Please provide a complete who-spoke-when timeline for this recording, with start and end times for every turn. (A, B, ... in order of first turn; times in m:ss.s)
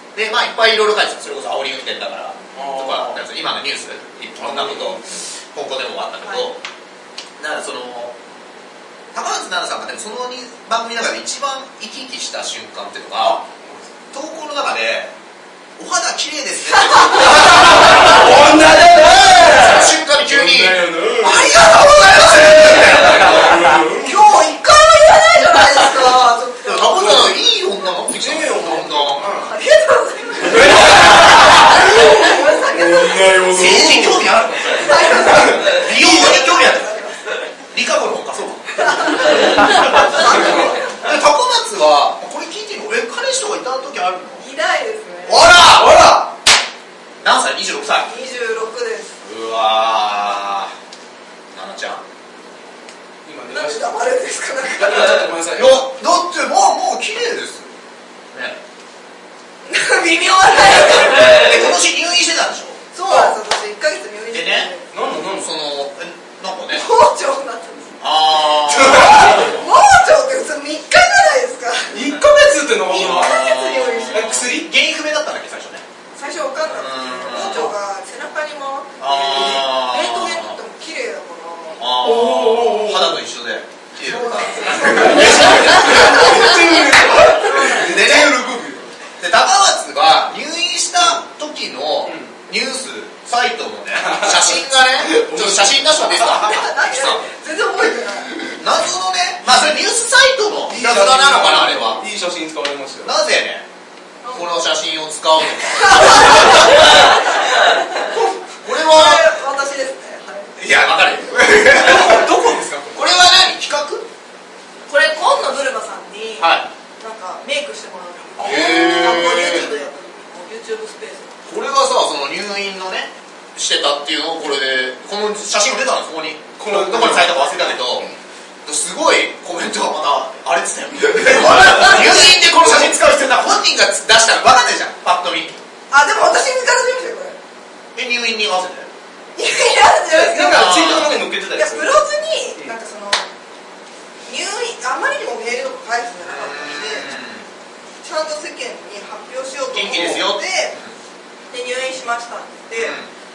0:00.2-0:06.6 A
0:02.5-0:03.2 B
0:04.4-0:05.0 B
0:06.2-0:06.5 C
0:07.4-0:08.2 A
0:09.1-0:13.4 A
0:13.2-0:13.9 B
0:14.1-0:15.1 A
0:15.8-0:23.7 A
0:16.8-0:17.1 C
0:17.2-0:24.1 B
0:23.9-0:27.4 C
0:26.6-0:29.4 A
0:28.1-0:29.5 B
0:29.4-0:33.5 C
0:30.5-0:34.3 B
0:33.5-0:36.9 A
0:34.7-0:37.2 C
0:35.3-0:35.6 B
0:37.7-0:44.5 A
0:38.8-0:41.0 C
0:40.0-0:40.5 B
0:44.4-0:45.5 C
0:45.2-0:46.0 A
0:45.7-0:46.3 B
0:47.2-0:48.1 A
0:48.0-0:49.2 C
0:49.2-0:50.7 A
0:51.5-0:52.0 A
0:53.2-0:54.0 B
0:53.5-0:55.3 C
0:54.7-0:55.9 B
0:55.5-0:57.7 A
0:58.3-0:58.6 A
0:59.6-1:01.8 C
1:00.8-1:02.8 A
1:02.9-1:04.8 C
1:03.1-1:03.4 B
1:04.3-1:04.7 A
1:04.9-1:05.5 B
1:05.4-1:06.8 A
1:06.7-1:08.0 C
1:08.0-1:09.4 A
1:08.6-1:09.6 B
1:09.1-1:12.1 C
1:11.9-1:13.4 B
1:12.9-1:14.4 C
1:12.9-1:15.8 A
1:14.0-1:14.7 B
1:16.2-1:21.8 C
1:16.7-1:17.7 A
1:19.0-1:20.6 A
1:21.8-1:26.8 A
1:22.0-1:23.2 B
1:24.0-1:27.8 C
1:24.8-1:29.0 B
1:27.8-1:28.4 A
1:29.2-1:37.3 A
1:32.0-1:32.4 B
1:34.0-1:36.4 B
1:36.3-1:38.3 C
1:38.6-1:42.0 A
1:40.7-1:43.2 B
1:43.0-1:43.7 A
1:44.2-1:44.6 C
1:44.3-1:47.0 A
1:45.6-1:50.6 C
1:48.1-1:49.3 A
1:50.6-1:52.3 A
1:51.4-1:53.0 B
1:52.9-1:54.1 A
1:54.9-2:01.4 C
1:56.4-1:56.7 A
1:58.4-1:59.7 A
1:58.4-1:59.5 B
2:01.5-2:08.1 A
2:06.6-2:07.8 B
2:08.6-2:15.6 A
2:11.2-2:12.4 C
2:12.7-2:12.9 B
2:15.9-2:17.4 C
2:18.0-2:18.9 A
2:19.4-2:21.0 C
2:20.1-2:22.0 B
2:20.5-2:21.2 A
2:21.5-2:23.3 C
2:24.2-2:27.1 C
2:26.2-2:27.5 A
2:28.0-2:30.8 C
2:29.7-2:30.9 A
2:29.9-2:30.2 B
2:31.5-2:33.0 C
2:32.7-2:33.1 A